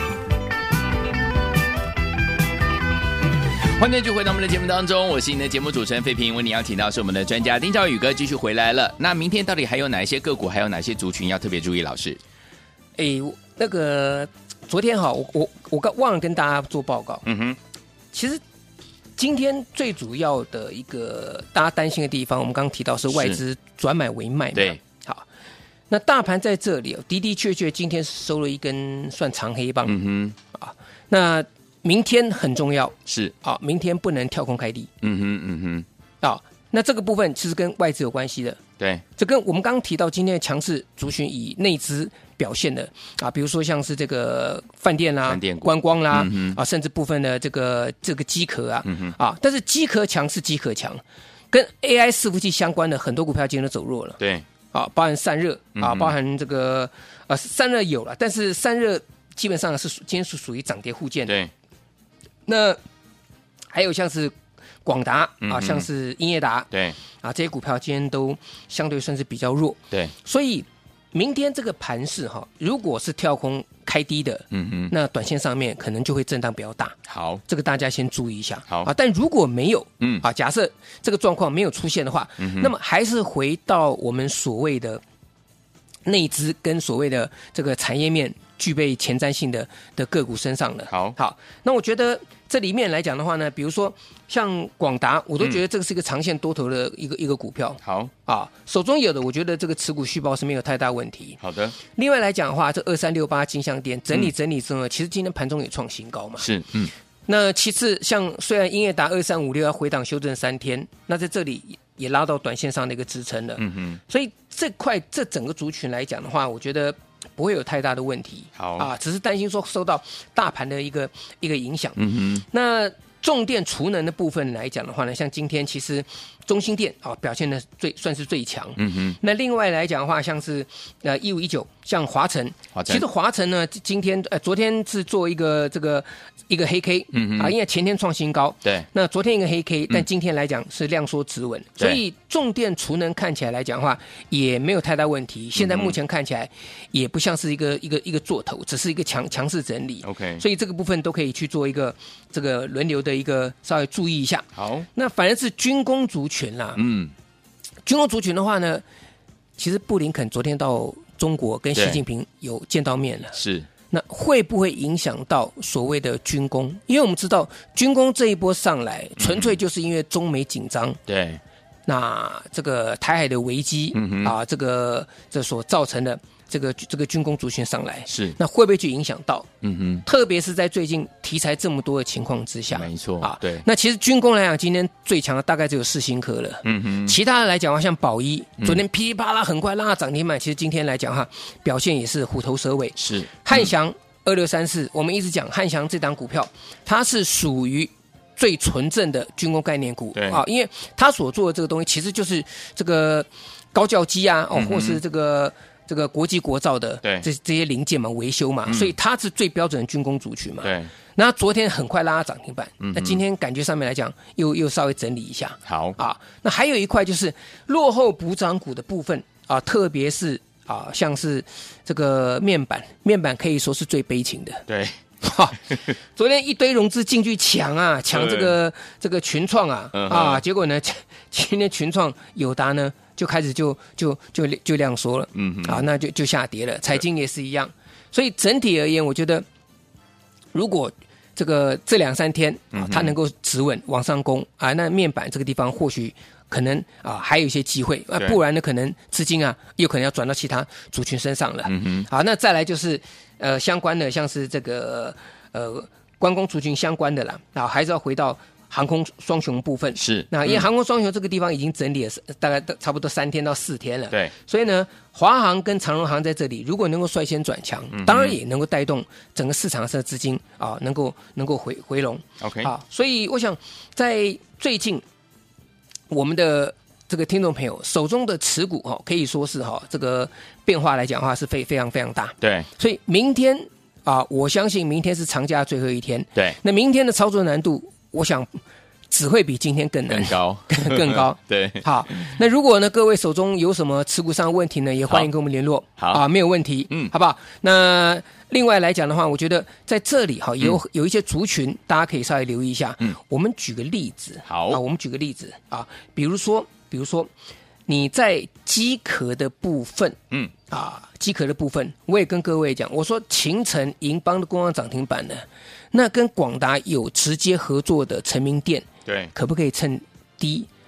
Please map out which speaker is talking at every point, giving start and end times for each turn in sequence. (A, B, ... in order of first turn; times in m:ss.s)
0:03.8-0:12.2 A
0:13.0-0:17.2 B
0:17.2-0:17.6 A
0:18.1-0:18.4 B
0:19.2-0:25.3 B
0:23.1-0:23.4 A
0:25.9-0:30.0 B
0:29.8-0:30.4 A
0:30.5-0:34.9 B
0:33.1-0:33.3 A
0:35.0-0:35.9 A
0:36.2-0:38.6 B
0:39.2-0:54.2 B
0:45.3-0:46.6 A
0:48.8-0:49.2 A
0:54.2-0:54.4 A
0:54.7-1:01.4 B
0:55.8-0:56.1 A
1:02.5-1:02.8 B
1:03.7-1:25.0 B
1:05.4-1:05.9 A
1:06.7-1:07.0 A
1:14.5-1:14.9 A
1:17.1-1:17.4 A
1:22.4-1:22.7 A
1:26.0-1:41.4 B
1:30.9-1:31.2 A
1:37.8-1:38.1 A
1:41.4-1:41.8 A
1:41.9-1:46.5 B
1:46.4-1:46.9 A
1:47.3-2:36.8 B
1:53.6-1:54.0 A
1:58.6-1:58.9 A
2:02.0-2:02.4 A
2:08.8-2:09.2 A
2:12.7-2:13.0 A
2:17.1-2:17.6 A
2:25.6-2:25.9 A
2:30.0-2:30.4 A
2:34.6-2:34.9 A
2:36.8-2:37.1 A
2:37.9-2:38.8 B
2:39.6-2:43.4 B
2:41.8-2:42.0 A
2:43.3-2:43.7 A
2:43.9-2:51.0 B
2:49.2-2:49.6 A
2:51.1-2:51.4 A
2:51.9-2:59.5 B
2:53.9-2:54.4 A
2:58.1-2:58.4 A
2:59.6-3:00.0 A
3:00.0-3:44.6 B
3:02.7-3:03.6 A
3:06.6-3:07.2 A
3:13.0-3:13.7 A
3:20.2-3:20.4 A
3:24.5-3:25.0 A
3:28.7-3:28.9 A
3:30.6-3:30.9 A
3:32.8-3:33.2 A
3:35.7-3:36.0 A
3:44.7-3:45.0 A
3:45.2-3:59.5 B
3:48.1-3:48.6 A
3:49.9-3:50.4 A
3:55.4-3:55.9 A
4:00.5-4:35.0 B
4:02.7-4:03.2 A
4:11.6-4:12.1 A
4:20.0-4:20.7 A
4:27.9-4:28.4 A
4:32.4-4:32.7 A
4:36.1-5:07.3 B
4:42.4-4:42.7 A
4:50.1-4:52.3 A
4:56.0-4:56.2 A
5:04.5-5:04.8 A
5:07.9-5:10.2 B
5:10.7-5:20.7 B
5:19.1-5:19.3 A